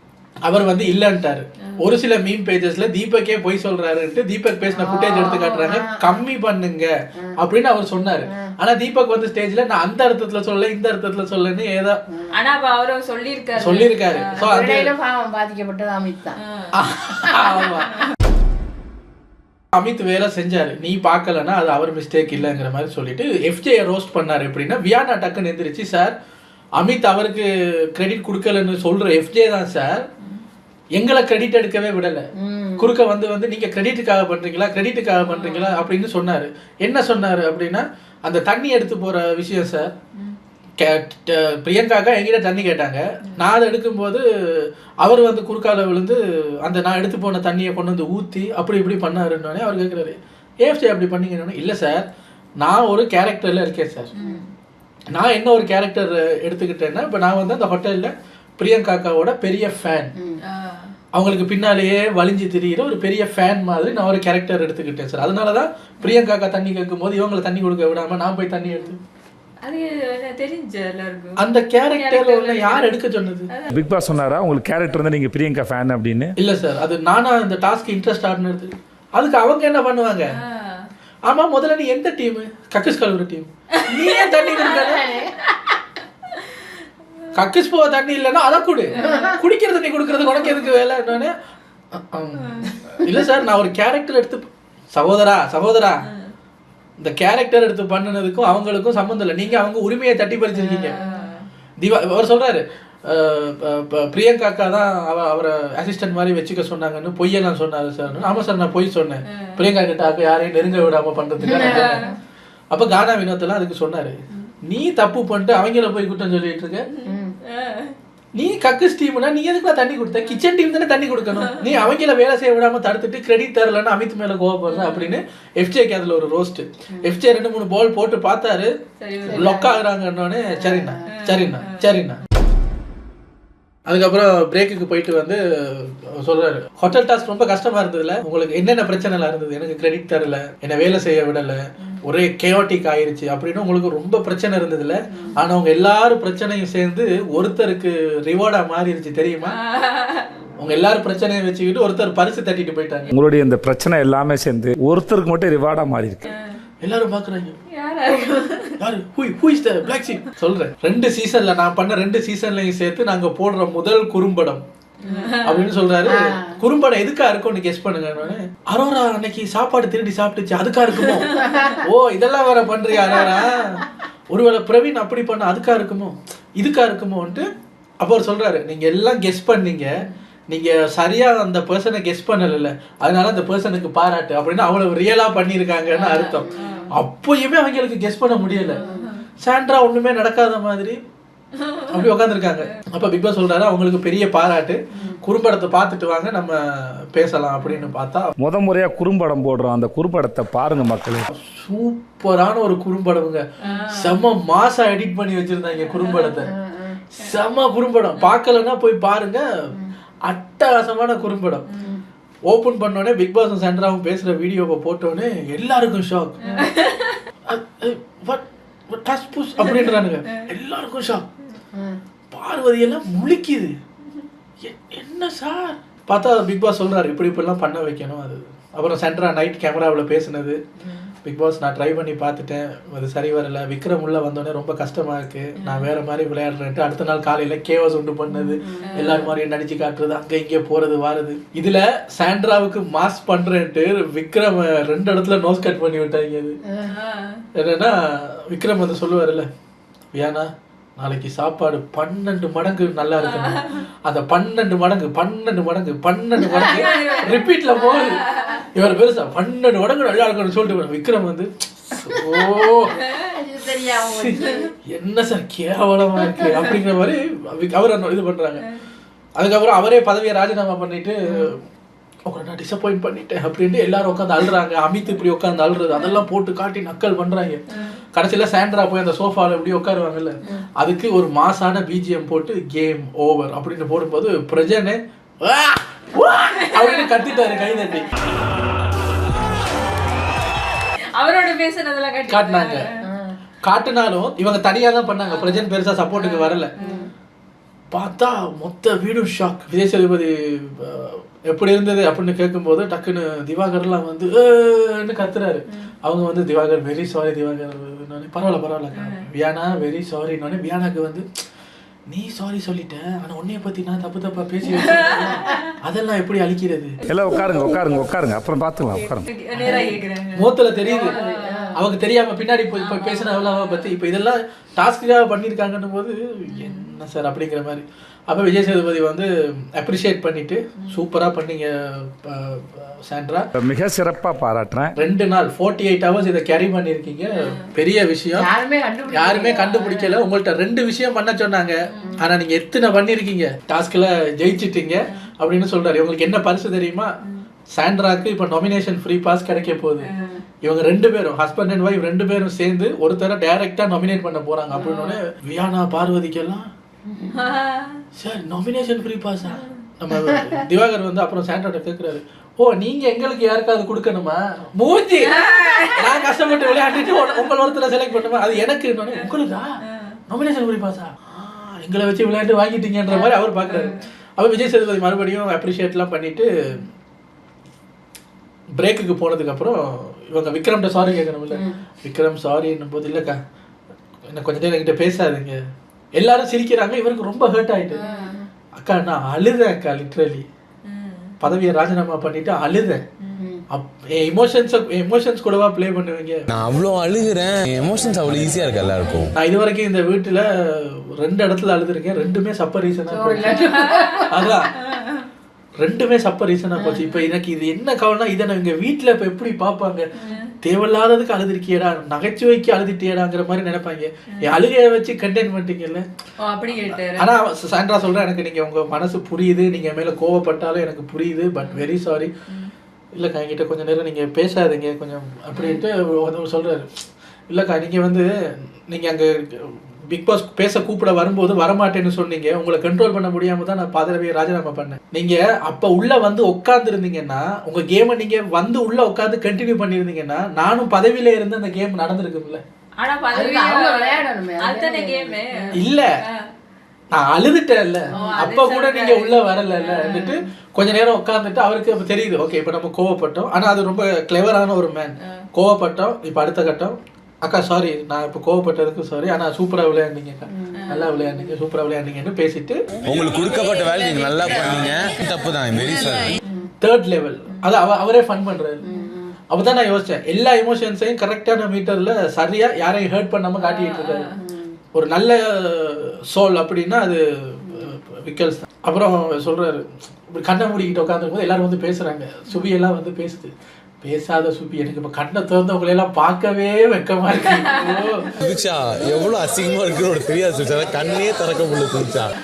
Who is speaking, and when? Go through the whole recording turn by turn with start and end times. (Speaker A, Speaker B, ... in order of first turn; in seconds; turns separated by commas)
Speaker A: 0.5-11.9, Speaker B: 4.7-6.2, Speaker C: 5.2-5.7, Speaker C: 12.3-14.3, Speaker A: 13.6-14.9, Speaker B: 14.4-16.4, Speaker A: 16.8-17.9, Speaker A: 19.7-26.1, Speaker A: 26.8-30.1, Speaker A: 30.9-32.3, Speaker B: 32.4-32.9, Speaker A: 32.8-39.9, Speaker C: 35.2-35.8, Speaker A: 40.8-52.0, Speaker A: 52.6-54.1, Speaker C: 54.1-54.5, Speaker A: 55.1-60.1, Speaker C: 60.5-60.9, Speaker A: 61.1-69.0, Speaker B: 68.6-69.0, Speaker C: 69.6-71.4, Speaker A: 71.4-73.5, Speaker C: 72.0-73.0, Speaker C: 73.5-73.8, Speaker D: 73.7-76.3, Speaker A: 76.4-80.3, Speaker C: 80.3-80.9, Speaker A: 81.3-85.2, Speaker B: 84.5-85.5, Speaker A: 87.3-91.3, Speaker C: 89.0-89.2, Speaker B: 89.0-89.3, Speaker A: 91.9-96.0, Speaker C: 92.4-92.9, Speaker A: 97.0-101.0, Speaker C: 100.5-101.5, Speaker A: 101.8-112.0, Speaker C: 109.3-109.7, Speaker B: 111.4-112.1, Speaker C: 111.6-112.1, Speaker A: 112.7-116.9, Speaker C: 116.9-118.0, Speaker B: 117.1-117.3, Speaker A: 118.4-128.7, Speaker C: 121.4-121.8, Speaker C: 124.7-125.2, Speaker C: 129.0-129.5, Speaker B: 129.2-129.8, Speaker A: 129.3-132.2, Speaker B: 130.5-131.0, Speaker C: 131.3-131.9, Speaker A: 133.9-149.6, Speaker C: 149.4-150.3, Speaker A: 150.6-153.1, Speaker D: 153.1-156.3, Speaker C: 156.3-156.6, Speaker A: 156.8-157.6, Speaker C: 157.7-158.7, Speaker A: 158.8-164.6, Speaker C: 165.0-165.7, Speaker A: 165.4-177.5, Speaker B: 166.0-166.6, Speaker C: 171.3-171.7, Speaker B: 171.3-171.8, Speaker A: 178.0-179.9, Speaker A: 180.5-188.8, Speaker C: 185.9-186.9, Speaker B: 186.4-186.8, Speaker C: 188.7-189.2, Speaker B: 188.7-189.1, Speaker A: 189.4-191.0, Speaker C: 191.6-192.1, Speaker A: 191.9-198.3, Speaker B: 194.9-195.2, Speaker C: 197.6-197.9, Speaker D: 198.4-201.3, Speaker A: 201.3-206.5, Speaker C: 203.6-204.2, Speaker C: 205.9-206.5, Speaker B: 206.4-207.0, Speaker A: 207.1-209.4, Speaker A: 210.2-211.7, Speaker B: 211.8-212.0, Speaker A: 212.5-216.4, Speaker C: 216.5-217.2, Speaker A: 217.4-221.3, Speaker C: 219.6-220.4, Speaker B: 221.7-222.0, Speaker A: 222.3-223.7, Speaker A: 224.6-230.6, Speaker A: 231.2-246.6, Speaker C: 235.6-235.9, Speaker B: 238.5-239.2, Speaker C: 238.9-239.3, Speaker B: 246.6-246.9, Speaker C: 246.9-247.4, Speaker A: 247.5-249.5, Speaker A: 250.1-262.9, Speaker C: 253.2-253.8, Speaker C: 256.5-258.6, Speaker B: 256.6-257.1, Speaker B: 263.0-264.7, Speaker A: 264.0-264.4, Speaker A: 264.9-268.6, Speaker B: 266.2-266.5, Speaker A: 269.4-271.6, Speaker A: 272.3-277.6, Speaker C: 277.7-278.0, Speaker A: 278.1-288.1, Speaker C: 286.6-287.3, Speaker C: 291.1-292.9, Speaker A: 292.3-292.8, Speaker B: 293.0-293.4, Speaker A: 293.6-296.7, Speaker C: 295.2-297.1, Speaker B: 296.8-297.1, Speaker A: 297.9-311.3, Speaker C: 308.9-309.2, Speaker A: 312.1-317.0, Speaker C: 314.8-315.6, Speaker D: 317.1-319.3, Speaker C: 319.3-321.8, Speaker A: 319.6-321.2, Speaker B: 319.6-319.9, Speaker B: 320.9-321.7, Speaker A: 321.7-333.5, Speaker C: 322.7-323.9, Speaker C: 326.5-326.9, Speaker D: 333.5-334.9, Speaker A: 335.0-338.5, Speaker C: 337.4-337.7, Speaker B: 338.4-340.0, Speaker A: 339.1-347.1, Speaker C: 339.8-340.0, Speaker C: 341.9-342.2, Speaker A: 347.7-350.1, Speaker C: 350.0-350.4, Speaker A: 350.6-356.7, Speaker C: 354.8-355.2, Speaker B: 357.1-357.4, Speaker C: 357.4-358.0, Speaker A: 358.1-376.5, Speaker C: 359.5-359.8, Speaker B: 360.1-360.5, Speaker C: 365.2-366.3, Speaker C: 369.9-370.2, Speaker C: 373.1-374.0, Speaker A: 378.8-383.4, Speaker B: 381.5-381.8, Speaker A: 384.3-385.6, Speaker A: 386.1-388.0, Speaker B: 387.9-388.4, Speaker C: 387.9-388.4, Speaker A: 388.8-390.4, Speaker C: 390.9-391.4, Speaker A: 391.4-393.0, Speaker B: 393.4-393.6, Speaker A: 393.7-396.4, Speaker E: 396.5-399.3, Speaker A: 399.3-403.7, Speaker B: 403.1-404.5, Speaker C: 403.5-405.2, Speaker A: 404.3-404.7, Speaker A: 405.8-410.1, Speaker B: 406.8-407.1, Speaker C: 410.2-410.5, Speaker A: 410.6-416.1, Speaker C: 416.4-417.2, Speaker A: 416.9-422.3, Speaker C: 422.5-422.7, Speaker A: 423.2-426.9, Speaker C: 425.5-425.8, Speaker A: 427.5-428.3, Speaker A: 428.9-442.6, Speaker C: 443.0-446.4, Speaker B: 443.3-445.8, Speaker A: 445.8-446.1, Speaker A: 447.1-462.8, Speaker C: 448.2-450.3, Speaker B: 450.1-450.4, Speaker B: 460.5-461.5, Speaker C: 460.8-461.2, Speaker E: 463.0-466.4, Speaker C: 463.8-464.9, Speaker A: 466.8-468.8, Speaker B: 468.8-469.4, Speaker C: 468.8-469.1, Speaker A: 469.5-474.3, Speaker C: 473.6-474.3, Speaker B: 474.3-474.8, Speaker A: 474.9-488.3, Speaker E: 488.4-492.3